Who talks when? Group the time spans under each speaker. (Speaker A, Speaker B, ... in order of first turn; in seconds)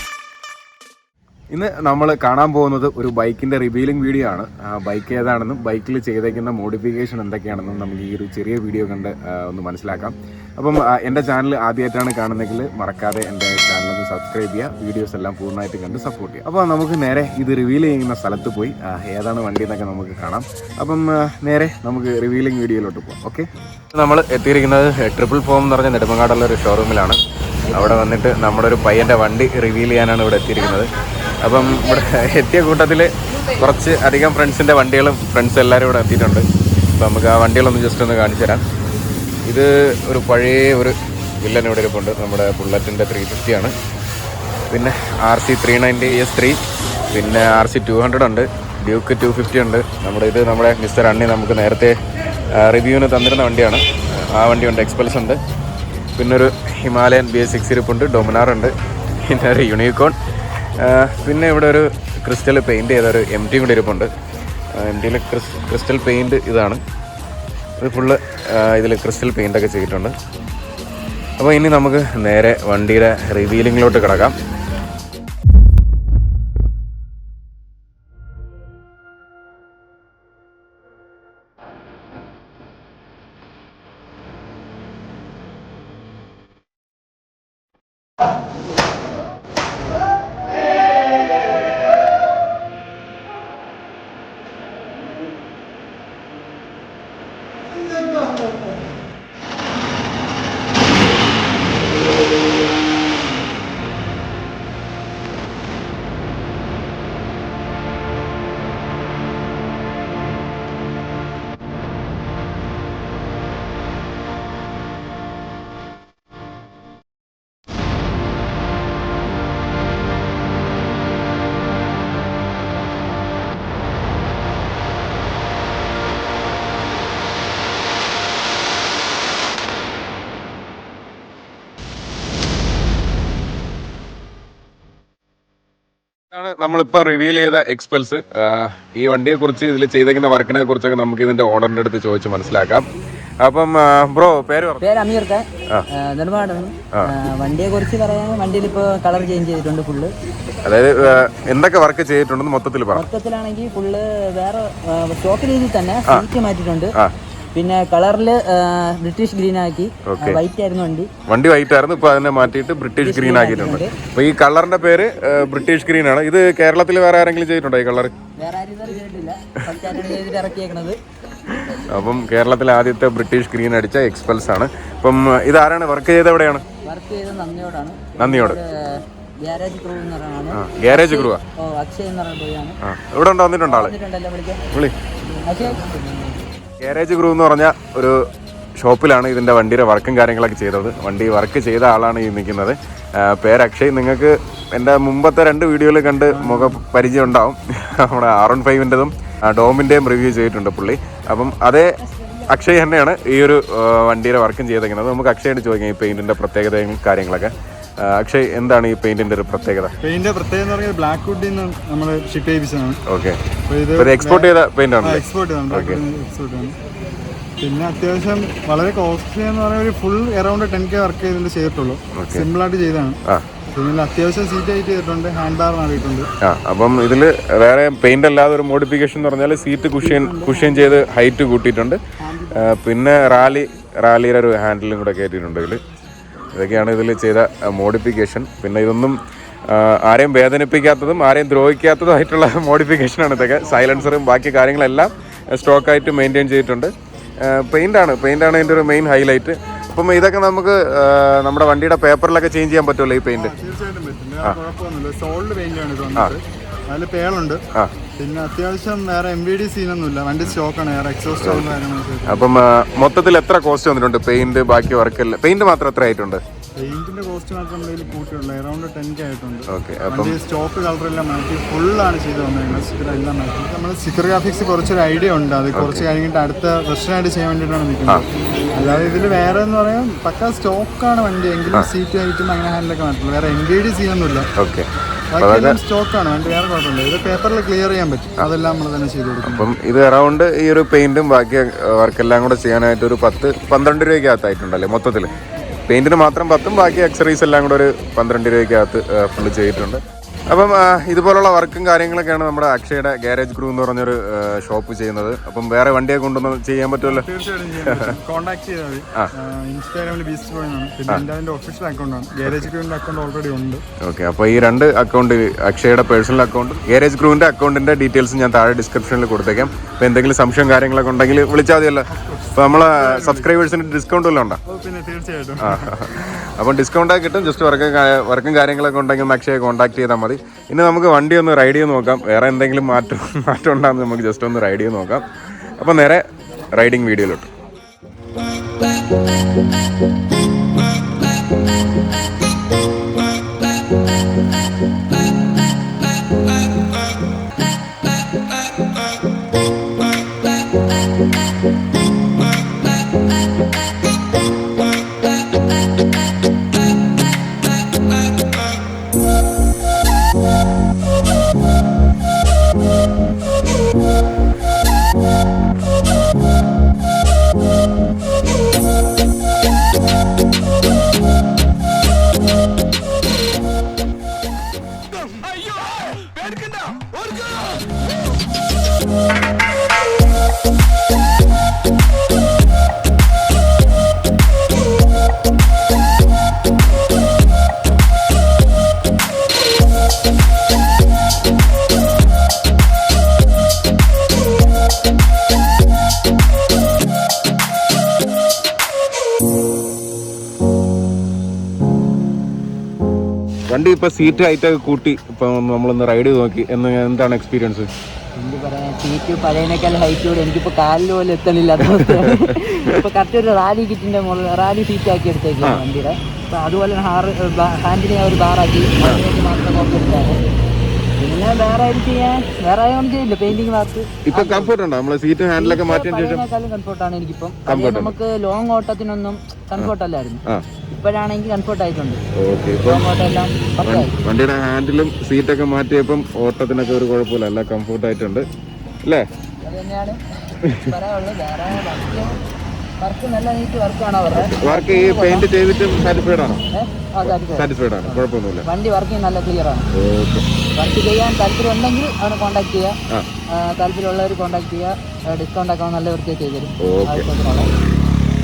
Speaker A: 1.5-27.2, 27.7-30.9, 31.4-38.6, 39.5-43.8, 44.7-46.6, 47.1-52.0, 52.5-55.4, 56.2-60.2, 60.8-64.1, 64.7-66.8, 67.8-70.2, 71.4-74.3, 136.3-142.9, 143.4-144.8, 150.6-153.1, 160.1-160.4, 161.3-168.1, 171.5-176.7, 178.2-178.6, 180.5-181.4, 182.8-183.9, 184.7-185.0, 186.8-188.2, 188.8-209.9, 213.1-213.4, 214.0-216.0, 222.1-222.5, 226.4-232.0, 232.6-235.8, 236.5-253.5, 261.4-261.7, 262.3-266.4, 269.7-270.4, 275.7-276.1, 284.6-284.9, 285.4-285.8, 289.4-295.3, 295.9-307.3, 307.8-308.2, 314.0-324.6, 325.6-337.5, 403.7-407.9, 411.9-412.7, 424.3-426.4, 427.7-428.1, 432.4-433.1, 433.8-438.5, 440.6-440.9, 444.3-446.6, 447.2-448.7, 449.9-450.4, 456.8-457.3
Speaker B: 27.7-28.0, 144.8-150.1, 152.9-156.9, 157.6-161.1, 163.0-163.9, 168.4-171.0, 176.8-182.8, 183.7-184.6, 185.4-185.8, 230.0-231.0, 232.2-232.7, 408.4-420.4, 421.2-424.7, 425.6-432.2, 432.8-434.1, 439.6-442.4, 443.0-445.5, 446.7-449.9, 450.8-453.0, 453.5-457.7
Speaker C: 185.3-186.4, 196.3-196.8, 210.0-213.0, 213.7-216.8, 217.6-223.2, 223.7-226.3, 243.7-244.1, 253.3-257.6, 258.2-262.6, 266.8-284.5, 285.3-289.7, 307.0-313.8, 322.1-323.5, 324.7-325.9